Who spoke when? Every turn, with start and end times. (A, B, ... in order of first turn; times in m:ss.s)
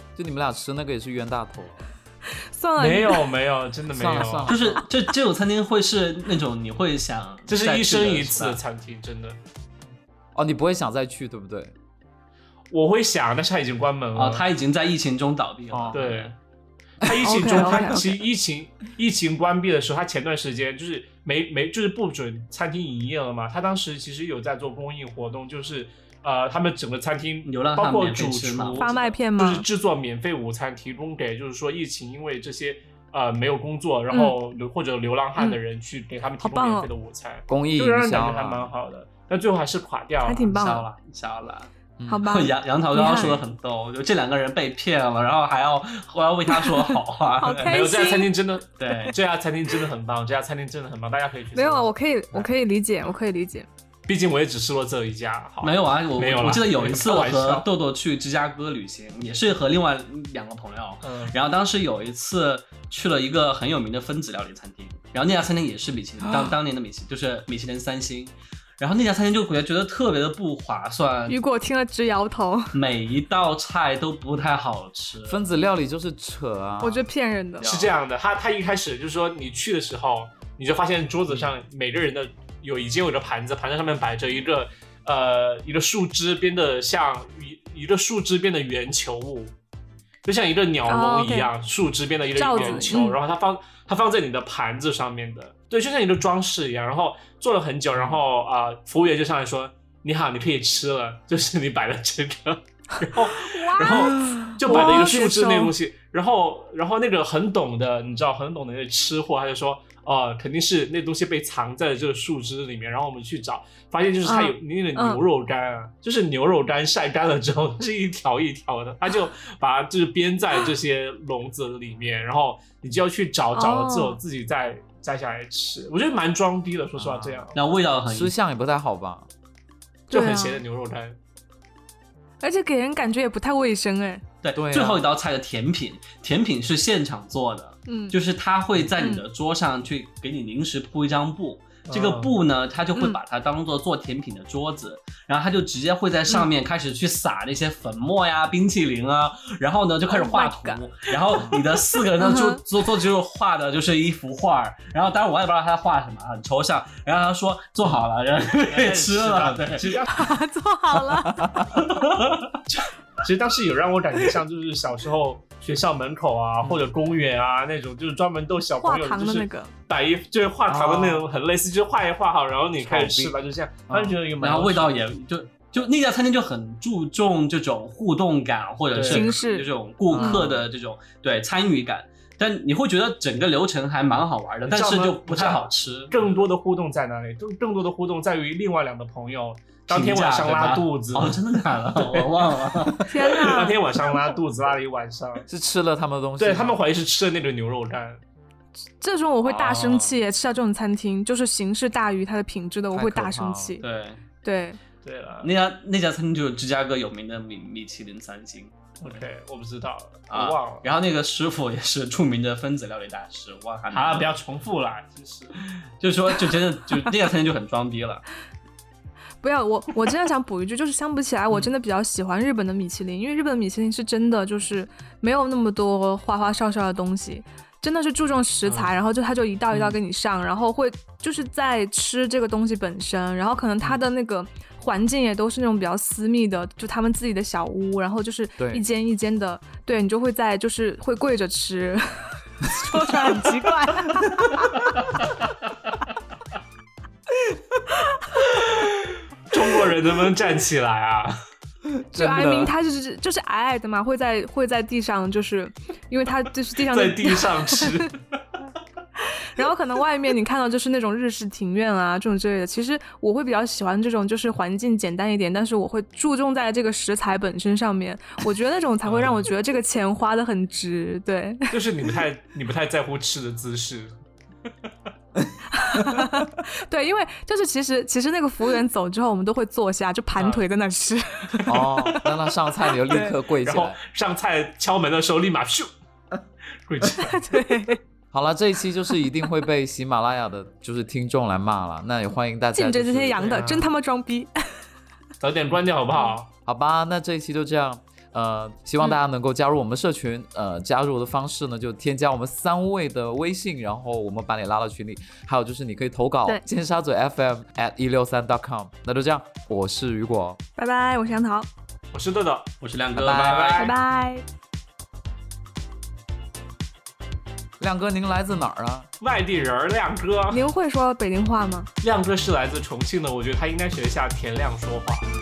0:00.2-0:01.8 A
0:02.4-0:03.3 B
0:02.8-0:04.6 C
0:03.9-0:04.8 A
0:04.5-0:08.6 D
0:07.5-0:09.4 C
0:10.4-0:11.7 A
0:12.7-0:14.4 C
0:14.2-0:16.3 D
0:15.7-0:16.0 A
0:15.9-0:16.4 C
0:17.0-0:40.5 C
0:17.2-0:18.2 B
0:27.5-0:29.1 D
0:28.8-0:29.6 B
0:34.1-0:34.4 B
0:36.4-0:36.9 B
0:37.5-0:38.7 A
0:40.2-0:40.9 B
0:40.5-0:41.7 D
0:42.0-0:42.3 A
0:42.1-0:43.4 B
0:42.2-0:47.8 D
0:46.5-0:48.3 B
0:47.5-0:52.5 C
0:48.8-0:49.2 D
0:51.5-0:53.7 B
0:54.1-0:57.7 C
0:55.6-1:11.4 D
1:01.0-1:01.4 C
1:06.2-1:06.6 A
1:11.3-1:12.8 B
1:12.7-1:15.4 D
1:15.3-1:17.1 A
1:16.8-1:17.7 B
1:17.6-1:18.0 D
1:17.6-1:29.5 C
1:30.2-2:07.6 C
1:30.9-1:31.5 B
1:32.4-1:33.2 B
1:43.3-1:45.7 B
1:54.2-1:55.2 B
2:03.6-2:04.2 B
2:07.0-2:07.5 A
2:07.5-2:08.3 D
2:08.1-2:09.3 A
2:10.1-2:10.6 B
2:10.1-2:11.2 C
2:12.4-2:14.2 B
2:14.4-2:40.0 D
2:14.6-2:15.0 A
2:17.9-2:18.2 B
2:19.0-2:19.2 B
2:21.9-2:22.3 C
2:30.1-2:30.8 B
2:31.3-2:31.6 A
2:32.2-2:32.6 B
2:38.7-2:40.2 C
2:40.1-2:41.5 B
2:41.2-2:41.8 A
2:41.8-2:42.4 D
2:43.2-2:55.0 C
2:48.8-2:49.7 B
2:50.7-2:51.3 A
2:52.8-2:53.4 A
2:53.9-2:54.2 A
2:54.4-3:06.4 D
2:58.9-2:59.3 C
2:59.1-3:00.4 B
3:00.1-3:00.7 A
3:04.7-3:11.4 C
3:09.9-3:13.1 D
3:11.9-3:15.4 C
3:13.1-3:13.8 B
3:15.5-3:16.8 A
3:16.4-3:18.2 C
3:19.0-3:23.8 B
3:19.5-3:20.1 D
3:22.9-3:23.8 A
3:23.8-3:24.2 D
3:24.4-3:24.8 B
3:25.0-3:25.5 C
3:25.4-3:29.2 D
3:29.0-3:30.9 C
3:30.3-3:34.3 D
3:33.9-3:35.6 C
3:36.0-3:38.2 D
3:39.4-4:04.8 B
3:58.6-3:58.8 A
4:02.8-4:03.3 A
4:08.6-4:08.9 C
4:09.5-4:11.4 C
4:11.9-4:12.7 A
4:12.1-4:17.9 B
4:16.8-4:18.2 C
4:19.5-4:31.7 B
4:29.0-4:29.5 C
4:31.7-4:34.1 C
4:35.7-4:42.3 B
4:36.0-4:36.3 A
4:40.4-4:40.6 C
4:41.7-4:44.0 A
4:42.9-4:43.4 B
4:43.6-4:45.9 C
4:46.9-4:47.4 C
4:47.2-4:48.0 B
4:48.3-4:53.6 A
4:52.7-4:54.7 B
4:53.4-4:53.9 C
4:55.4-4:56.5 C
4:56.7-5:10.6 A
5:10.8-5:11.7 B
5:12.1-5:12.7 C
5:12.8-5:13.9 D
5:13.2-5:13.8 A
5:13.2-5:14.0 C
5:13.8-5:14.4 B
5:17.8-5:19.1 A
5:19.2-5:20.6 C
5:20.5-5:21.9 B
5:22.0-5:25.3 C